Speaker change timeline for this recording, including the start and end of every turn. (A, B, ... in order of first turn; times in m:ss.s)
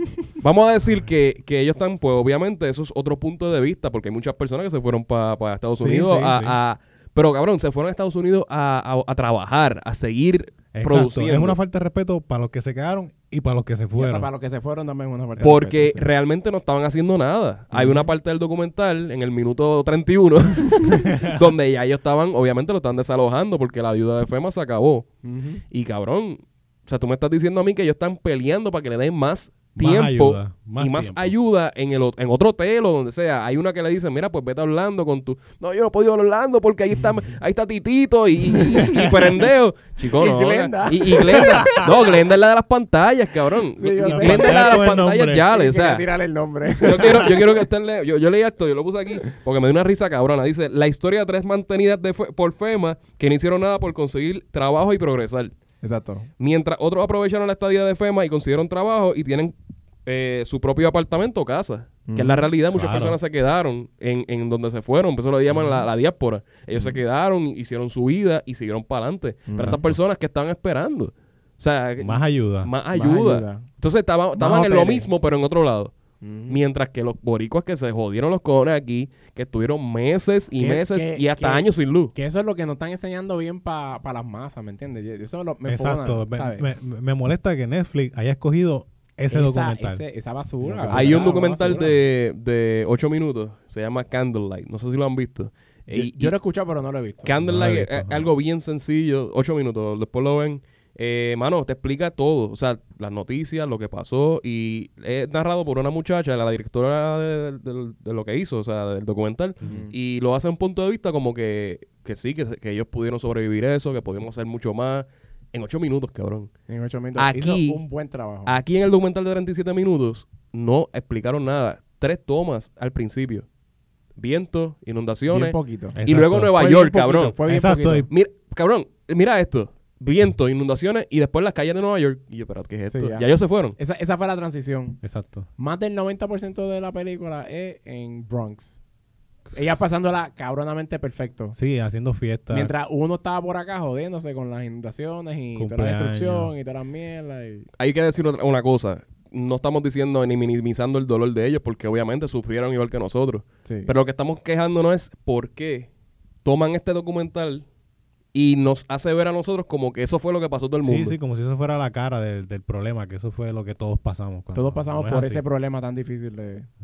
0:00.4-0:11.6 A
0:05.8-0:06.6 B
0:10.7-0:14.3 B
0:14.0-0:16.1 C
0:15.4-0:25.1 A
0:17.7-0:18.1 C
0:20.9-0:21.5 B
0:25.2-0:25.6 C
0:25.7-0:46.1 A
0:29.7-0:31.3 B
0:38.7-0:39.4 B
0:40.0-0:42.0 C
0:41.3-0:41.9 B
0:43.8-0:47.5 C
0:44.0-0:45.4 B
0:46.8-0:55.5 A
0:46.9-0:47.4 B
0:55.8-0:56.3 C
0:56.4-0:59.5 A
1:00.1-1:15.9 A
1:02.1-1:02.5 C
1:02.7-1:03.2 B
1:05.5-1:05.8 B
1:06.7-1:07.0 C
1:09.5-1:09.8 C
1:09.6-1:10.0 B
1:12.0-1:12.7 B
1:12.9-1:13.7 C
1:14.4-1:15.1 C
1:16.2-1:16.6 C
1:16.5-1:22.1 A
1:20.6-1:26.7 C
1:25.7-1:30.0 B
1:29.3-1:31.9 C
1:30.6-1:31.3 B
1:30.9-1:36.3 A
1:35.9-1:37.4 C
1:37.2-1:56.5 A
1:37.4-1:38.3 B
1:49.6-1:49.9 C
1:56.7-1:58.6 C
1:57.2-1:57.8 A
1:58.5-2:03.4 A
2:04.2-2:07.4 A
2:05.3-2:06.0 C
2:06.0-2:06.7 B
2:06.5-2:08.1 C
2:07.4-2:08.1 B
2:08.1-2:13.8 A
2:12.9-2:15.0 C
2:15.0-2:15.5 B
2:15.6-2:18.8 C
2:19.5-2:21.6 C
2:21.6-2:22.7 B
2:22.5-2:27.7 C
2:25.6-2:26.5 B
2:27.8-2:35.9 A
2:33.6-2:33.9 C
2:36.4-2:37.6 A
2:38.3-2:41.2 A
2:40.8-2:45.4 B
2:44.5-2:46.7 C